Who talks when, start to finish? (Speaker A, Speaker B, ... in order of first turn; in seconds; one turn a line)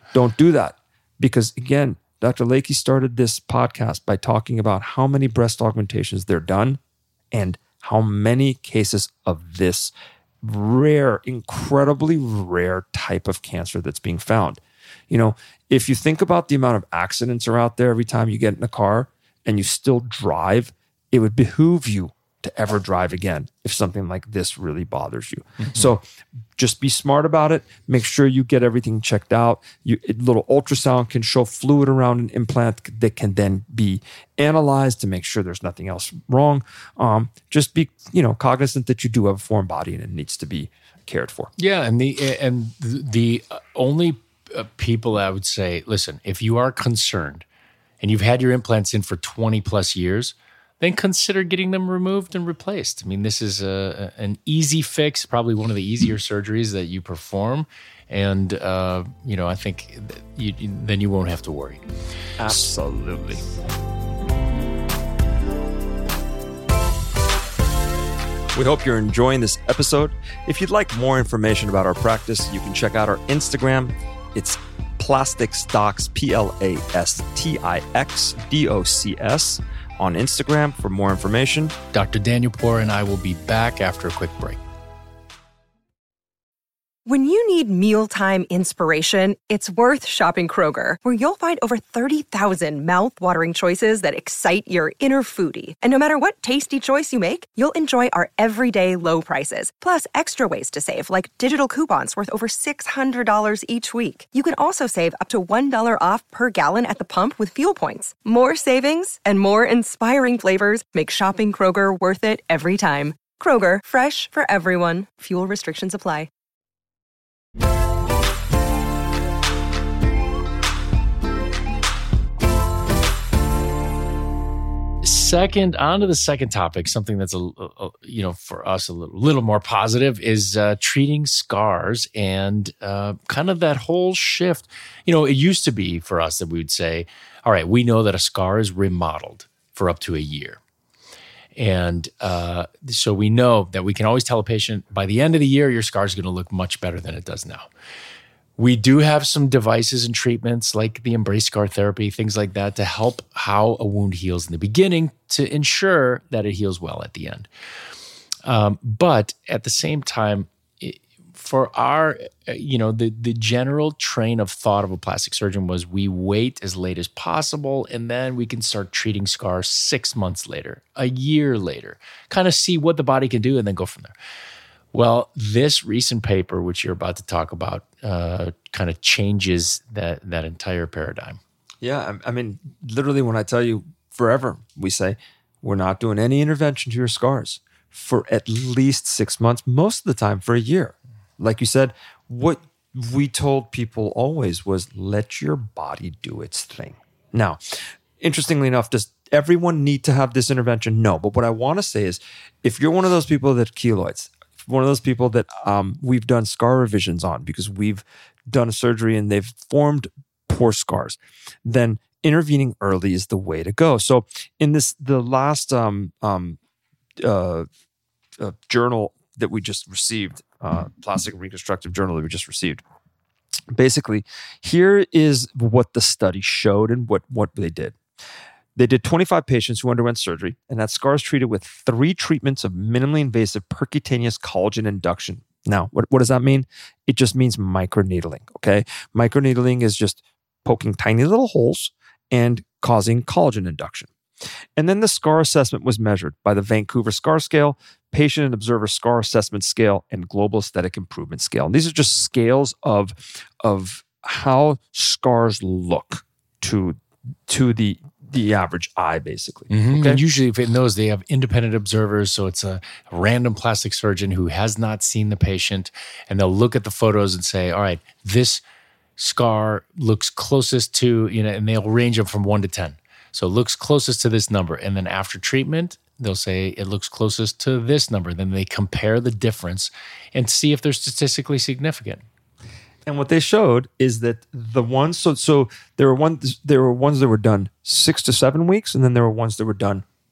Speaker A: 0.1-6.8
Speaker A: 7.3-26.0
Speaker B: 25.6-25.9
Speaker A: 26.6-41.5
Speaker B: 41.6-47.5
Speaker B: 48.0-61.8
Speaker A: 62.4-63.4
Speaker A: 68.5-81.8
Speaker B: 81.9-84.6
Speaker C: 87.1-116.3
Speaker B: 125.0-140.6
Speaker B: 141.6-147.7
Speaker B: 148.6-157.5
Speaker B: 158.4-174.1
Speaker B: 174.9-181.4
Speaker A: 181.8-216.6
Speaker A: 217.2-217.7
Speaker A: 218.4-222.8
Speaker A: 223.7-228.0
Speaker A: 228.8-244.1
Speaker A: 244.8-260.2
Speaker B: 259.7-268.6
Speaker B: 269.2-282.2
Speaker A: 283.1-290.1